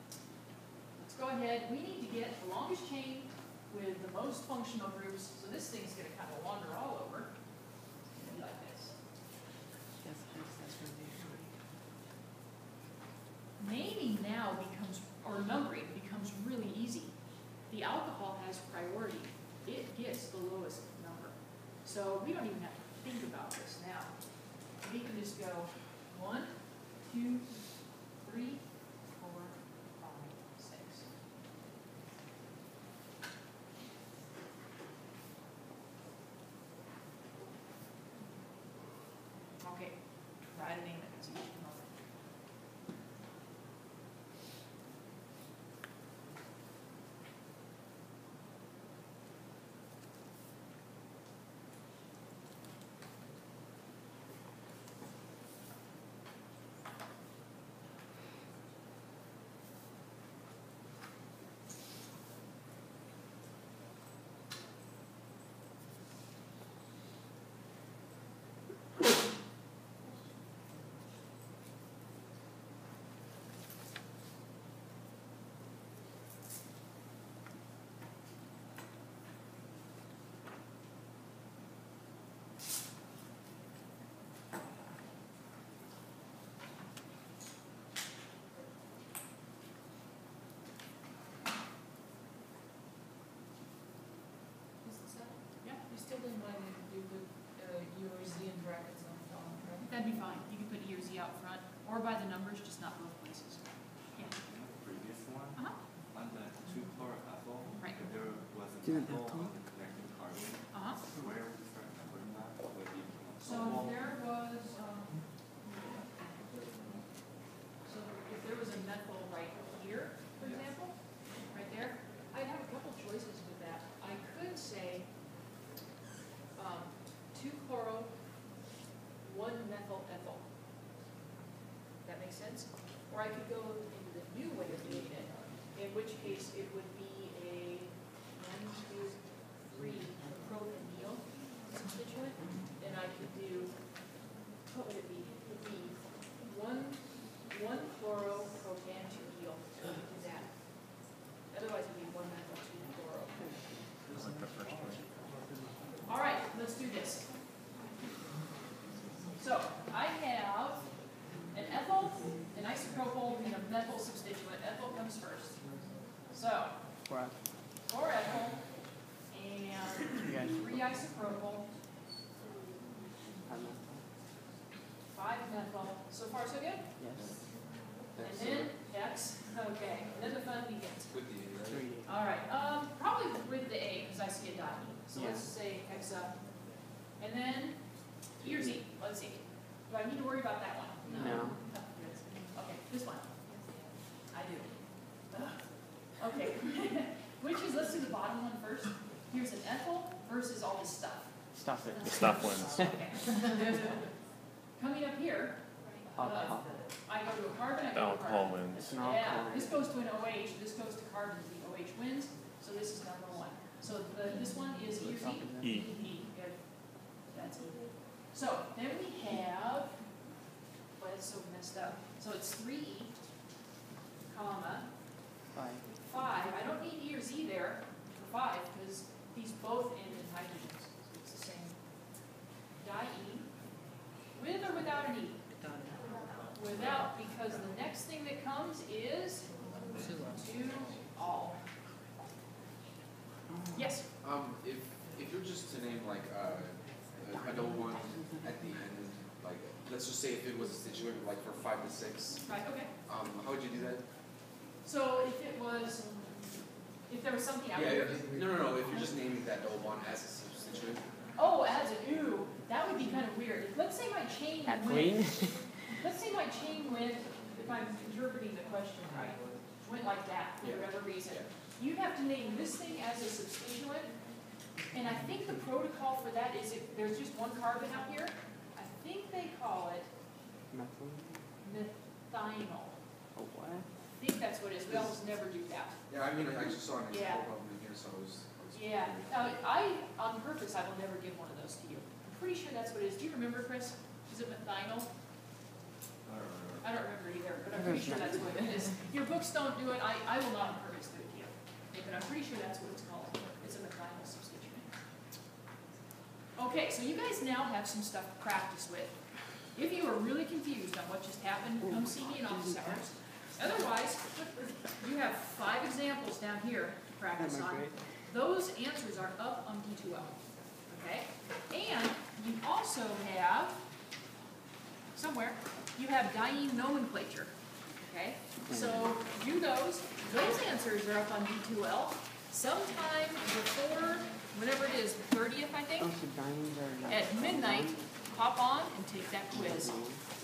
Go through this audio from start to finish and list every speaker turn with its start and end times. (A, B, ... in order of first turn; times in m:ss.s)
0:01.0-0:07.4 A
0:08.2-0:09.0 A
0:10.0-0:11.6 B
0:13.6-0:31.1 A
0:39.6-0:42.0 A
1:34.8-1:35.3 C
1:35.8-1:39.8 C
1:39.8-1:44.4 A
1:44.2-1:54.0 D
1:48.8-1:49.5 B
1:50.7-1:51.0 A
1:53.4-1:55.5 A
1:57.8-2:05.1 A
2:06.6-2:08.3 A
2:09.2-2:10.5 A
2:12.0-2:24.1 A
2:24.7-2:30.9 A
2:31.5-2:33.5 A
2:34.1-2:35.1 E
2:36.0-2:37.3 A
2:39.4-2:46.8 A
2:47.1-2:47.4 B
2:47.8-2:51.7 A
2:50.2-2:50.7 B
2:53.5-2:54.1 B
2:55.1-2:56.9 A
2:57.0-2:57.7 B
2:58.2-3:01.2 A
2:58.2-2:58.7 F
3:01.1-3:01.8 F
3:01.6-3:02.1 B
3:02.0-3:13.4 A
3:05.2-3:05.5 B
3:11.1-3:11.4 C
3:11.1-3:11.6 B
3:14.3-3:21.3 A
3:21.5-3:22.9 B
3:22.1-3:22.8 E
3:22.6-3:24.0 A
3:24.8-3:40.2 A
3:26.2-3:26.7 B
3:27.9-3:29.0 E
3:28.8-3:29.8 B
3:35.0-3:35.8 B
3:35.6-3:35.9 E
3:41.0-3:43.2 A
3:44.3-3:45.0 A
3:45.5-3:45.9 B
3:46.0-3:51.8 A
3:52.8-3:53.5 A
3:54.3-3:55.4 A
3:56.5-4:01.6 A
4:03.7-4:04.1 A
4:04.2-4:12.4 F
4:12.5-4:12.9 A
4:13.1-4:14.0 F
4:14.8-4:16.3 A
4:17.1-4:18.4 A
4:17.7-4:21.1 F
4:21.4-4:34.2 A
4:24.6-4:25.7 B
4:30.6-4:31.5 F
4:34.9-4:40.1 A
4:40.7-4:41.4 B
4:41.6-4:43.0 A
4:43.4-4:43.9 B
4:44.1-4:46.0 A
4:46.1-4:49.5 F
4:47.1-4:47.4 A
4:48.7-4:55.1 A
4:56.2-4:56.8 F
4:56.8-5:04.9 A
4:57.7-4:58.8 B
5:06.6-5:23.8 A
5:11.9-5:13.0 B
5:17.4-5:18.1 B
5:25.1-5:36.1 A
5:28.7-5:29.0 B
5:36.0-5:38.0 B
5:37.1-5:40.0 A
5:39.5-5:40.2 B